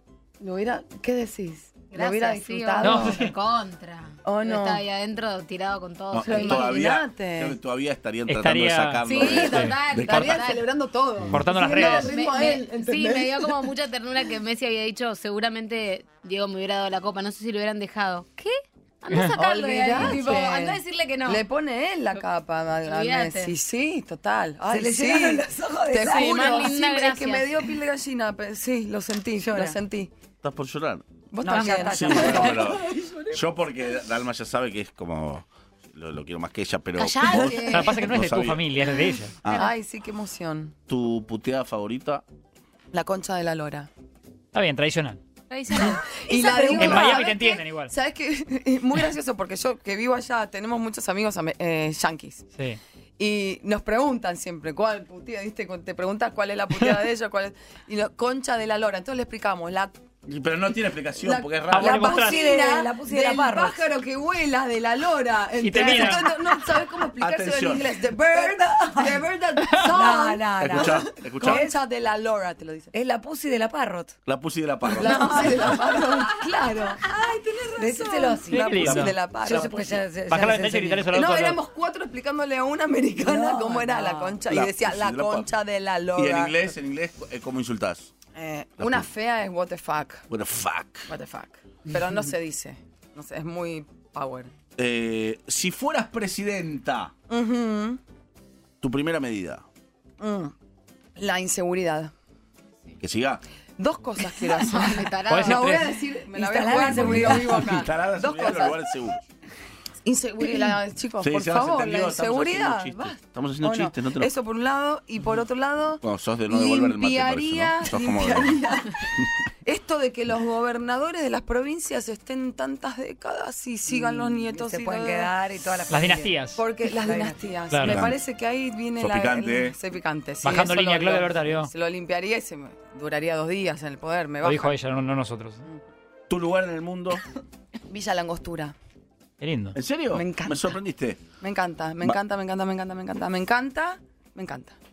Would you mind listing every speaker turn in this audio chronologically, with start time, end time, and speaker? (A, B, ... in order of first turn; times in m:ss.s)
0:00.4-0:03.3 A
0:01.9-0:06.8 B
0:02.8-0:03.3 C
0:04.2-0:04.8 A
0:06.1-0:10.3 D
0:06.2-0:07.6 A
0:08.3-0:10.4 C
0:09.1-0:10.6 B
0:09.1-0:13.7 A
0:11.3-0:12.2 C
0:11.6-0:18.4 B
0:19.0-0:21.4 B
0:19.1-0:30.1 A
0:20.0-0:20.4 D
0:22.8-0:23.5 B
0:24.7-0:26.7 E
0:26.0-0:27.6 B
0:29.4-0:29.8 E
0:30.4-0:38.9 D
0:31.3-0:33.4 A
0:31.4-0:32.8 E
0:37.0-0:38.1 B
0:37.4-0:39.3 C
0:39.4-0:39.7 D
0:39.5-0:40.7 A
0:40.9-0:42.2 D
0:42.9-0:43.9 A
0:44.5-0:45.2 C
0:45.5-0:46.2 B
0:45.8-0:52.4 A
0:46.2-0:47.3 E
0:46.7-0:47.9 C
0:53.2-0:59.9 A
1:00.2-1:02.0 D
1:01.2-1:12.9 A
1:01.7-1:02.5 C
1:01.9-1:03.8 E
1:05.6-1:06.3 C
1:05.8-1:06.2 E
1:07.2-1:07.8 D
1:08.2-1:11.8 E
1:10.6-1:11.6 D
1:12.9-1:14.1 E
1:14.2-1:15.8 D
1:14.9-1:19.7 A
1:15.0-1:17.1 E
1:17.7-1:18.9 E
1:18.5-1:19.2 C
1:18.8-1:20.0 D
1:19.4-1:21.2 E
1:20.3-1:21.6 C
1:21.1-1:26.6 A
1:23.2-1:24.4 E
1:24.5-1:25.5 D
1:26.1-1:28.1 D
1:28.3-1:30.2 A
1:28.8-1:29.1 D
1:30.3-1:31.1 D
1:31.1-1:34.5 A
1:34.8-1:37.1 D
1:37.3-1:38.0 A
1:38.8-1:39.6 D
1:40.2-1:40.5 A
1:41.2-1:42.1 A
1:43.0-1:43.4 D
1:43.8-1:48.8 A
1:44.6-1:45.8 B
1:45.3-1:45.9 C
1:46.2-1:47.9 E
1:46.8-1:49.2 D
1:50.0-2:05.3 A
1:50.4-1:50.7 E
1:51.2-1:54.3 D
1:56.0-1:58.6 D
2:03.9-2:06.4 E
2:05.9-2:06.6 C
2:06.6-2:14.7 A
2:07.0-2:07.4 E
2:07.7-2:08.1 C
2:07.8-2:08.2 D
2:09.0-2:09.8 D
2:10.4-2:11.7 C
2:14.4-2:15.6 C
2:16.3-2:17.2 D
2:17.9-2:18.7 A
2:19.4-2:19.8 C
2:19.7-2:21.2 D
2:20.1-2:20.7 A
2:21.4-2:24.7 A